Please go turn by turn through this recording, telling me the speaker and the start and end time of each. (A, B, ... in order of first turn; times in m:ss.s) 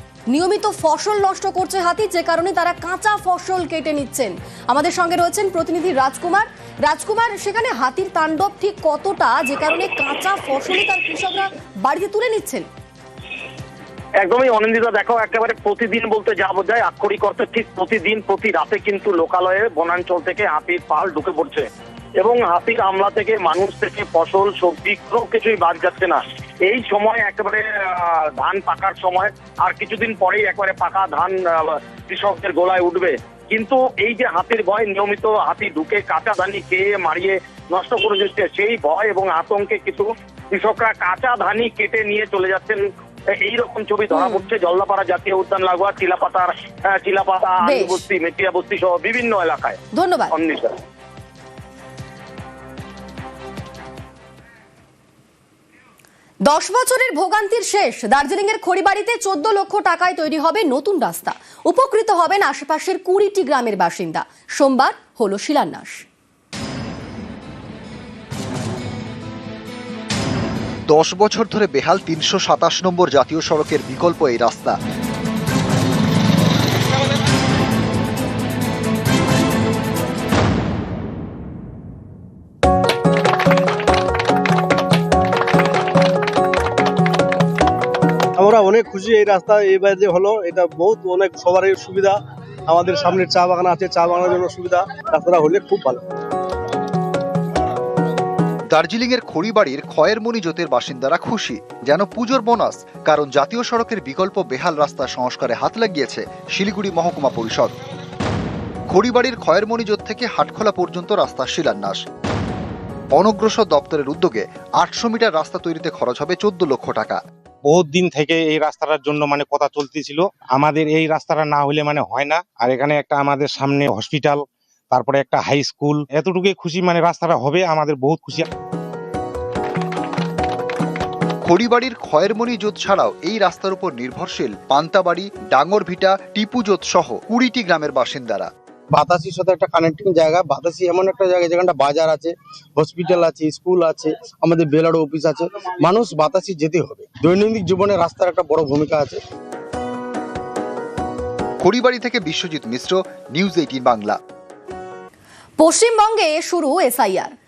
0:00.3-0:12.7 A
0:14.2-0:21.7 B
0:22.2-0:42.8 B
0:43.4-0:49.8 B
0:44.1-0:44.4 A
0:47.6-0:48.0 A
0:49.9-0:50.3 A
0:50.3-0:50.7 B
0:56.4-1:06.0 A
1:10.9-1:14.8 C
1:28.4-1:36.0 D
1:38.7-1:47.7 C
1:48.9-1:52.0 C
1:53.1-1:57.2 C
1:57.6-2:08.5 E
2:11.4-2:18.5 C
2:18.9-2:29.2 F
2:31.6-2:34.2 C
2:35.6-2:37.3 A